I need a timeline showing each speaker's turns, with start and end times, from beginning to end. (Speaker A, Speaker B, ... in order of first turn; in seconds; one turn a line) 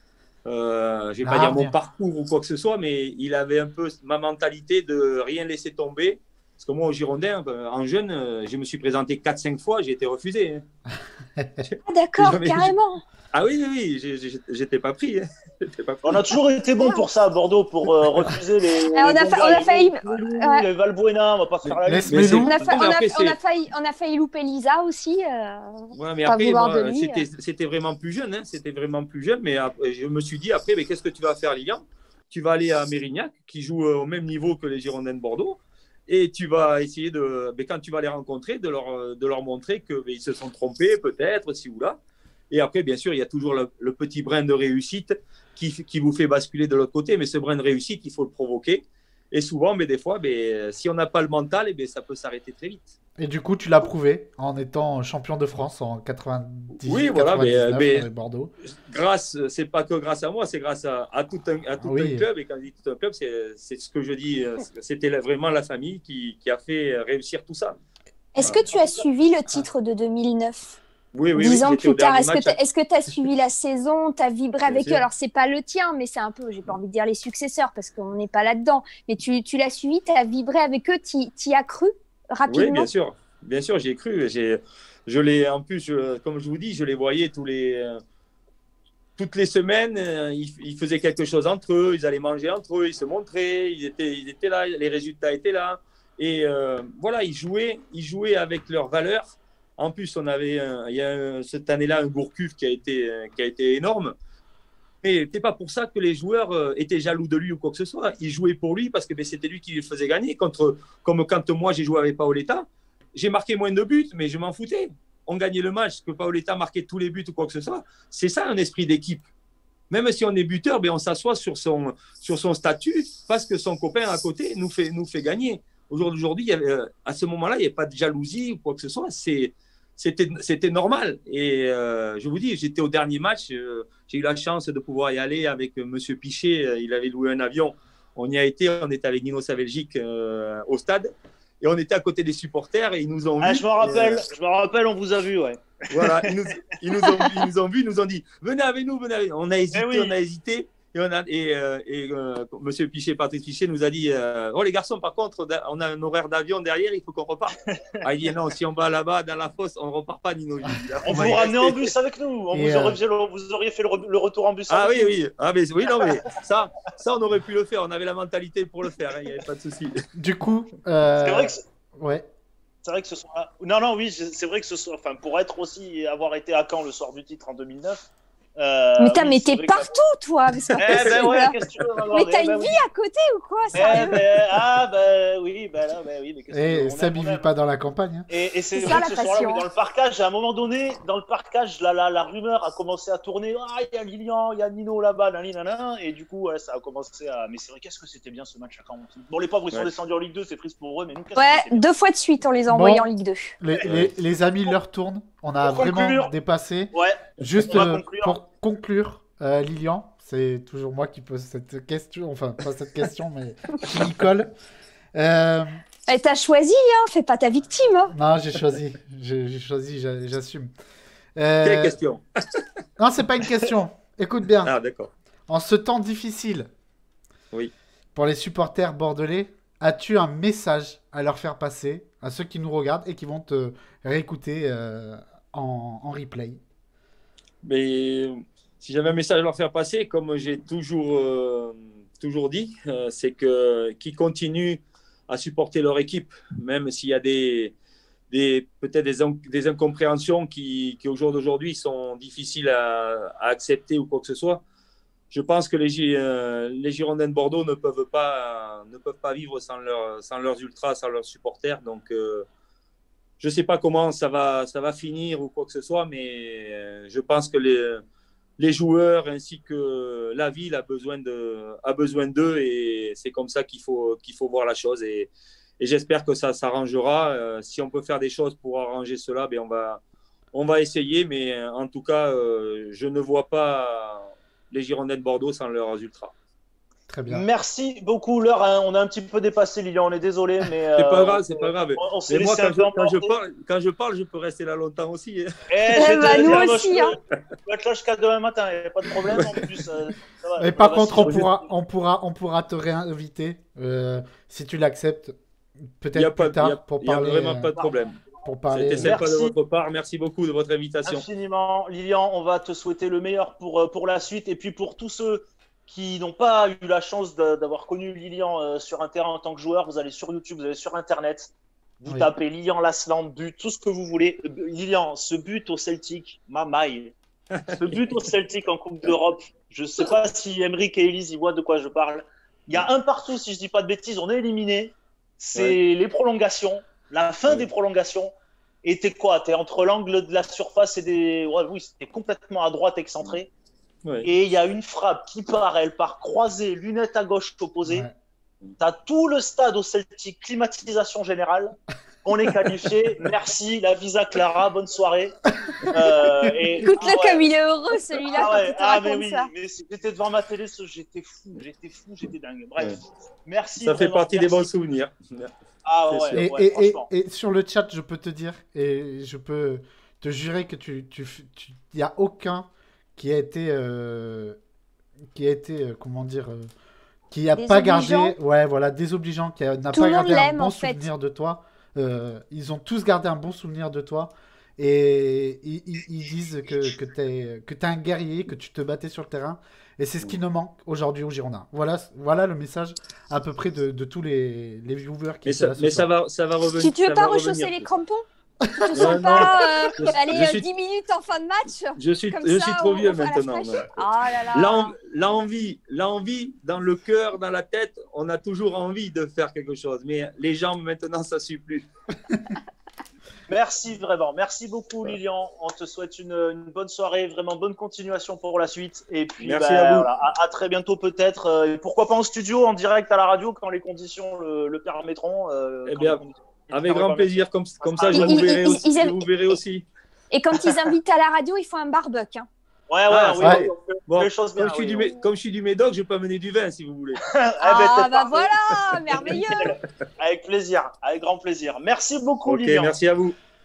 Speaker A: 0.5-10.6
Speaker B: 1.2-1.7
Speaker B: 11.4-11.6
Speaker A: 11.7-12.7
Speaker C: 11.9-13.0
Speaker A: 13.3-16.3
Speaker D: 16.0-22.4
Speaker C: 18.9-20.7
Speaker A: 21.6-23.4
Speaker B: 21.8-22.6
Speaker C: 22.4-27.2
Speaker A: 25.9-42.0
Speaker A: 42.5-53.0
Speaker B: 53.2-58.5
Speaker A: 56.8-58.1
Speaker A: 58.6-67.8
Speaker B: 61.8-62.3
Speaker C: 68.3-70.8
Speaker A: 71.1-72.5
Speaker C: 71.4-82.9
Speaker A: 74.7-75.0
Speaker A: 82.5-88.0
Speaker A: 89.2-104.1
Speaker A: 105.0-119.2
Speaker A: 119.9-144.2
Speaker D: 143.4-146.5
Speaker A: 145.9-161.9
Speaker D: 147.0-147.4
Speaker D: 149.7-150.1
Speaker D: 161.1-165.1
Speaker B: 162.5-163.0
Speaker A: 164.7-170.0
Speaker D: 165.8-166.2
Speaker B: 170.2-172.3
Speaker D: 171.2-171.6
Speaker D: 172.8-179.9
Speaker C: 179.0-181.6
Speaker A: 180.6-181.2
Speaker D: 180.8-182.8
Speaker C: 182.1-184.2
Speaker D: 183.7-187.5
Speaker B: 186.5-188.3
Speaker D: 188.3-201.8
Speaker C: 188.7-189.6
Speaker C: 201.4-203.6
Speaker B: 202.7-203.1
Speaker B: 203.6-214.5
Speaker A: 203.8-204.1
Speaker D: 205.6-206.3
Speaker D: 206.9-208.4
Speaker B: 215.1-215.8
Speaker C: 216.1-218.1
Speaker B: 218.1-220.7
Speaker B: 221.4-222.0
Speaker A: 221.6-222.6
Speaker B: 223.0-224.7
Speaker A: 224.6-225.1
Speaker B: 225.5-226.7
Speaker B: 228.1-236.6
Speaker A: 237.6-247.7
Speaker A: 248.3-254.6
Speaker A: 255.3-262.5
Speaker A: 263.4-268.0
Speaker A: 268.6-280.0
Speaker A: 280.5-286.3
Speaker B: 287.1-287.4
Speaker D: 287.3-293.3
Speaker A: 290.9-295.5
Speaker D: 295.7-301.6
Speaker C: 295.9-297.1
Speaker A: 299.3-299.6
Speaker B: 300.6-305.4
Speaker A: 301.2-301.5
Speaker B: 306.0-307.7
Speaker A: 306.1-308.2
Speaker B: 308.4-309.2
Speaker A: 308.7-311.2
Speaker D: 308.9-309.5
Speaker D: 311.1-327.1
Speaker A: 327.5-328.2
Speaker D: 327.7-338.3
Speaker D: 338.8-343.5
Speaker D: 344.2-348.1
Speaker B: 347.9-348.1
Speaker D: 348.8-357.5
Speaker C: 356.8-359.5
Speaker D: 358.2-364.7
Speaker A: 363.8-365.5
Speaker D: 365.8-367.1
Speaker A: 366.1-366.4
Speaker B: 366.4-374.6
Speaker B: 375.3-376.7
Speaker B: 377.3-396.1
Speaker C: 377.5-378.3
Speaker C: 379.9-381.1
Speaker A: 395.4-397.9
Speaker C: 396.8-398.2
Speaker C: 398.8-404.9
Speaker B: 398.8-399.5
Speaker A: 398.9-400.6
Speaker A: 402.0-404.0
Speaker A: 404.5-411.9
Speaker D: 413.5-428.8
Speaker A: 419.4-420.1
Speaker A: 425.9-429.9
Speaker C: 428.1-429.2
Speaker C: 430.3-432.5
Speaker D: 432.9-435.1
Speaker A: 433.1-437.2
Speaker B: 433.4-433.7
Speaker D: 437.2-438.5
Speaker C: 437.6-439.8
Speaker D: 439.1-442.9
Speaker A: 442.4-443.4